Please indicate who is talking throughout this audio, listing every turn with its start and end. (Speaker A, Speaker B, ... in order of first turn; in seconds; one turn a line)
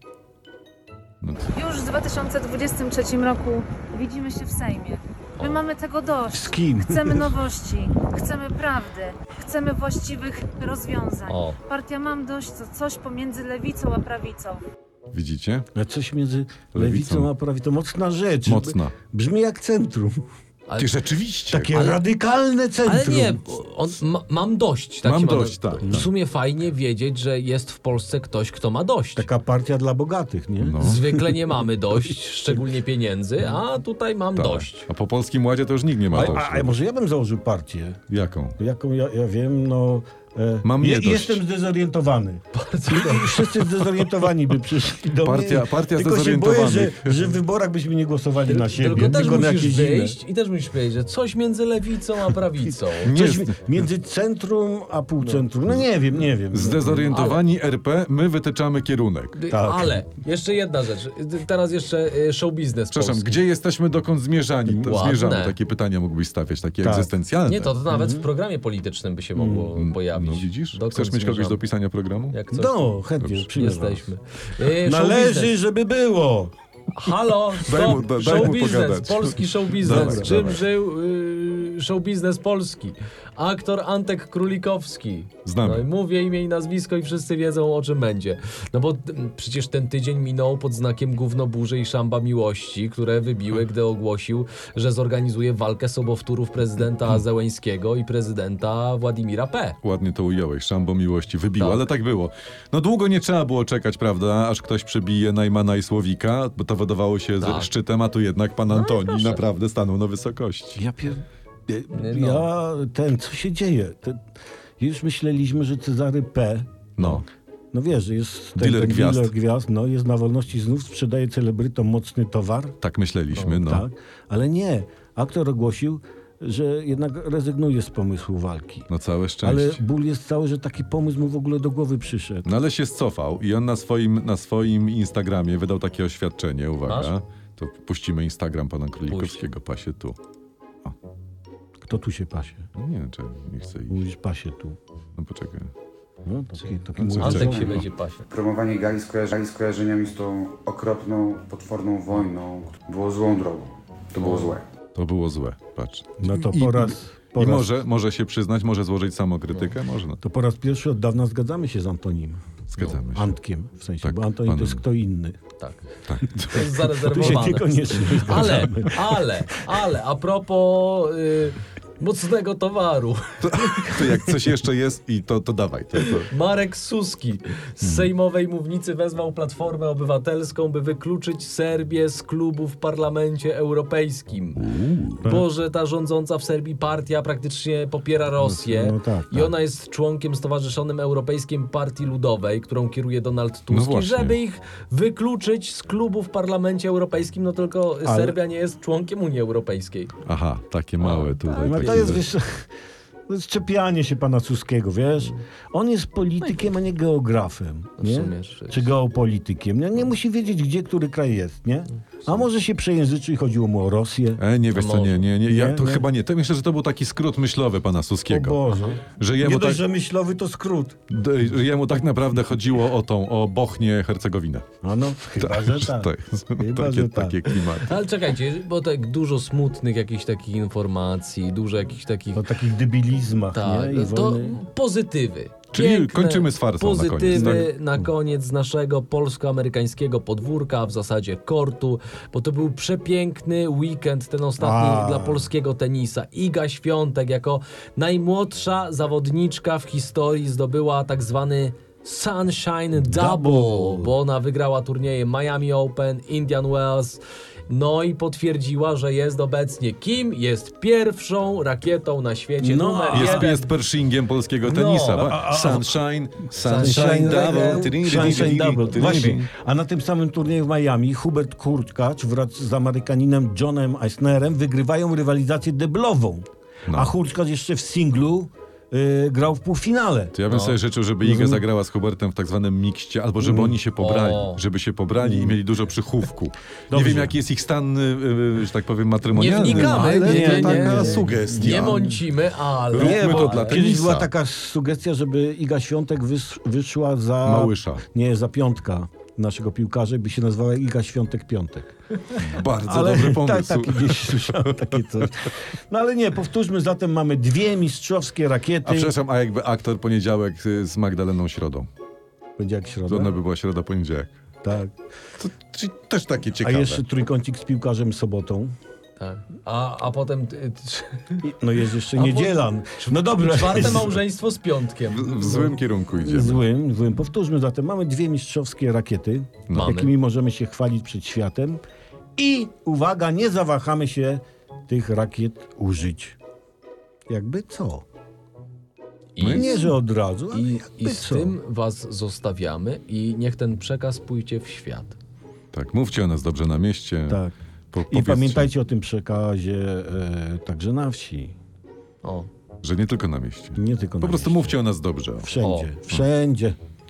Speaker A: 1.2-1.5
Speaker B: 1.5-14.6
Speaker C: 5.4-5.6
Speaker D: 6.3-7.3
Speaker C: 11.3-11.6
Speaker A: 15.1-15.7
Speaker D: 15.8-20.2
Speaker A: 16.8-17.3
Speaker A: 18.4-18.9
Speaker C: 20.7-20.9
Speaker A: 20.8-22.0
Speaker D: 21.5-23.4
Speaker C: 22.8-29.3
Speaker A: 25.0-26.1
Speaker D: 29.2-32.6
Speaker A: 30.6-31.0
Speaker C: 30.8-34.9
Speaker A: 34.4-36.8
Speaker D: 36.1-38.0
Speaker A: 38.1-38.6
Speaker D: 38.6-50.2
Speaker A: 40.6-41.4
Speaker C: 42.5-43.6
Speaker A: 45.2-47.4
Speaker C: 48.5-53.1
Speaker D: 53.0-57.1
Speaker A: 53.0-53.7
Speaker A: 56.5-59.4
Speaker C: 57.1-57.4
Speaker C: 59.4-63.4
Speaker D: 59.5-60.0
Speaker A: 62.9-67.7
Speaker C: 64.8-65.5
Speaker D: 66.8-67.1
Speaker C: 67.5-71.6
Speaker D: 67.9-68.3
Speaker D: 69.4-69.7
Speaker A: 69.7-72.4
Speaker C: 72.3-73.0
Speaker D: 72.5-74.0
Speaker A: 73.2-73.5
Speaker C: 73.5-75.5
Speaker D: 74.7-76.5
Speaker C: 76.9-99.8
Speaker A: 77.6-80.7
Speaker D: 79.8-80.3
Speaker A: 85.5-85.9
Speaker A: 99.8-110.8
Speaker C: 101.6-101.9
Speaker C: 107.4-107.7
Speaker C: 108.9-109.4
Speaker D: 110.8-114.2
Speaker C: 111.9-112.5
Speaker D: 114.8-122.8
Speaker A: 117.0-117.2
Speaker A: 118.6-119.3
Speaker A: 122.8-123.9
Speaker D: 123.4-128.9
Speaker A: 128.9-129.8
Speaker D: 129.4-132.5
Speaker A: 132.4-140.2
Speaker C: 136.8-137.1
Speaker C: 139.1-139.4
Speaker D: 141.8-142.7
Speaker A: 142.8-144.0
Speaker D: 143.9-144.8
Speaker A: 145.2-145.7
Speaker D: 146.2-147.8
Speaker A: 147.0-147.8
Speaker C: 147.2-148.3
Speaker E: 147.3-154.6
Speaker C: 154.2-154.6
Speaker A: 154.9-160.2
Speaker D: 156.2-157.7
Speaker D: 160.2-165.4
Speaker A: 162.7-163.3
Speaker A: 164.0-164.8
Speaker C: 165.6-174.0
Speaker A: 166.1-167.6
Speaker D: 166.5-169.6
Speaker A: 168.1-168.6
Speaker A: 173.4-176.3
Speaker C: 176.0-184.7
Speaker A: 184.6-185.3
Speaker C: 185.2-200.2
Speaker D: 188.4-189.5
Speaker A: 193.7-194.4
Speaker D: 198.0-198.4
Speaker A: 200.2-202.3
Speaker C: 201.0-202.3
Speaker D: 201.6-202.7
Speaker D: 203.3-214.4
Speaker C: 208.0-208.9
Speaker A: 214.4-219.8
Speaker C: 214.7-215.2
Speaker D: 215.5-216.1
Speaker D: 218.3-221.0
Speaker A: 221.1-224.7
Speaker D: 224.8-227.4
Speaker A: 225.3-227.9
Speaker C: 227.7-232.5
Speaker D: 232.3-234.6
Speaker C: 233.5-263.7
Speaker A: 235.7-237.7
Speaker D: 237.3-237.7
Speaker D: 244.6-245.5
Speaker D: 253.0-254.1
Speaker D: 262.6-263.5
Speaker A: 263.1-269.5
Speaker C: 264.6-265.4
Speaker D: 265.1-266.0
Speaker C: 266.6-268.6
Speaker D: 266.7-280.4
Speaker A: 276.9-277.1
Speaker A: 280.4-292.2
Speaker C: 280.5-280.8
Speaker D: 281.2-281.6
Speaker D: 283.4-283.8
Speaker C: 284.0-284.6
Speaker D: 285.2-285.6
Speaker D: 286.9-287.4
Speaker C: 289.3-293.8
Speaker D: 289.6-292.1
Speaker A: 292.9-294.3
Speaker D: 292.9-309.1
Speaker A: 297.4-298.1
Speaker A: 302.4-305.2
Speaker A: 308.9-311.9
Speaker D: 312.6-313.4
Speaker A: 313.1-314.4
Speaker D: 314.6-314.9
Speaker A: 315.4-317.0
Speaker D: 316.6-318.7
Speaker C: 319.2-321.5
Speaker D: 321.4-324.2
Speaker C: 322.1-325.8
Speaker A: 325.1-326.7
Speaker D: 326.2-331.8
Speaker C: 329.7-330.1
Speaker D: 332.4-336.4
Speaker D: 337.3-338.0
Speaker C: 339.4-339.9
Speaker A: 339.4-339.8
Speaker D: 339.5-341.6
Speaker C: 340.5-345.2
Speaker A: 345.7-347.4
Speaker D: 347.3-347.5
Speaker A: 347.9-348.7
Speaker D: 348.1-351.6
Speaker A: 352.8-355.6
Speaker D: 353.8-354.8
Speaker D: 355.4-356.8
Speaker C: 355.6-355.9